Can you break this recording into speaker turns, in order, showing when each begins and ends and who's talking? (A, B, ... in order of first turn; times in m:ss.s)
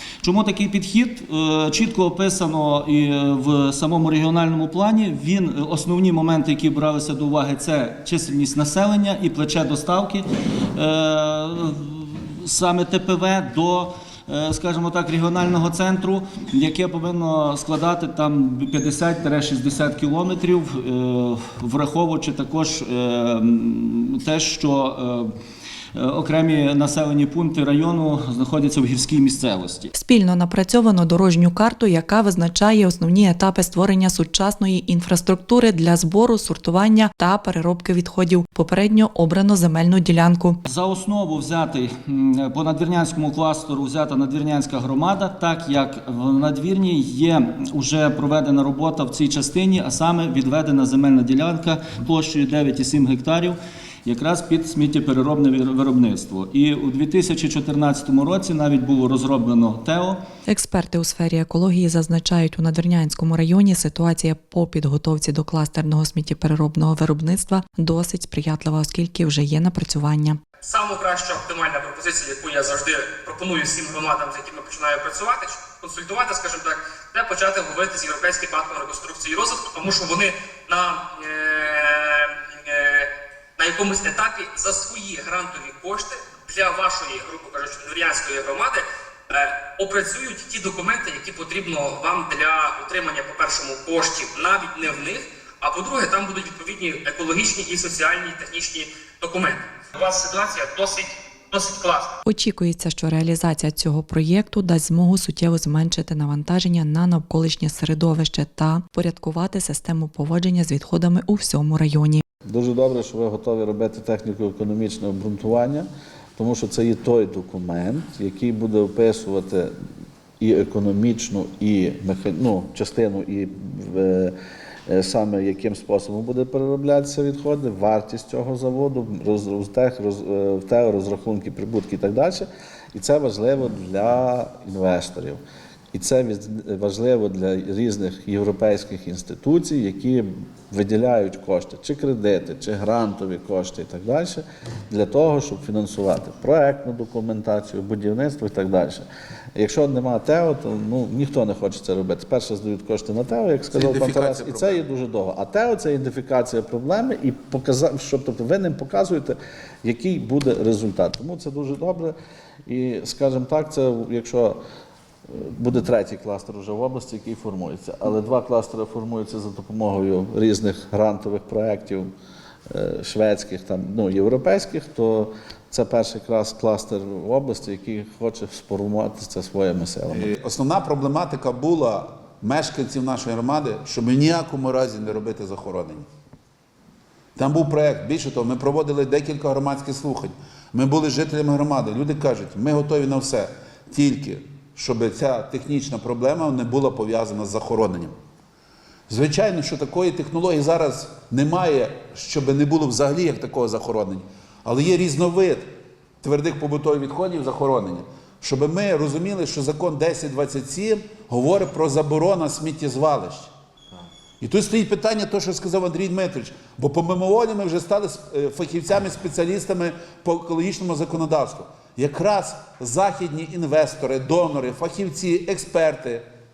0:00.2-0:10.2 A
0:10.7-0:25.3 A
0:25.9-0:29.9 A
0:29.9-0:40.6 B
0:40.6-1:00.2 A
1:00.5-1:10.4 B
1:10.6-1:42.2 C
1:42.2-1:52.2 B
1:52.4-1:59.7 D
2:00.4-2:04.4 D
2:04.9-2:15.4 D
2:15.9-2:42.1 D
2:33.7-2:34.8 E
2:42.7-2:44.6 D
2:45.3-2:52.1 D
2:52.7-3:00.3 D
3:00.1-3:06.0 E
3:07.4-3:18.1 E
3:19.1-3:25.7 E
3:26.2-3:33.5 E
3:34.4-3:46.2 E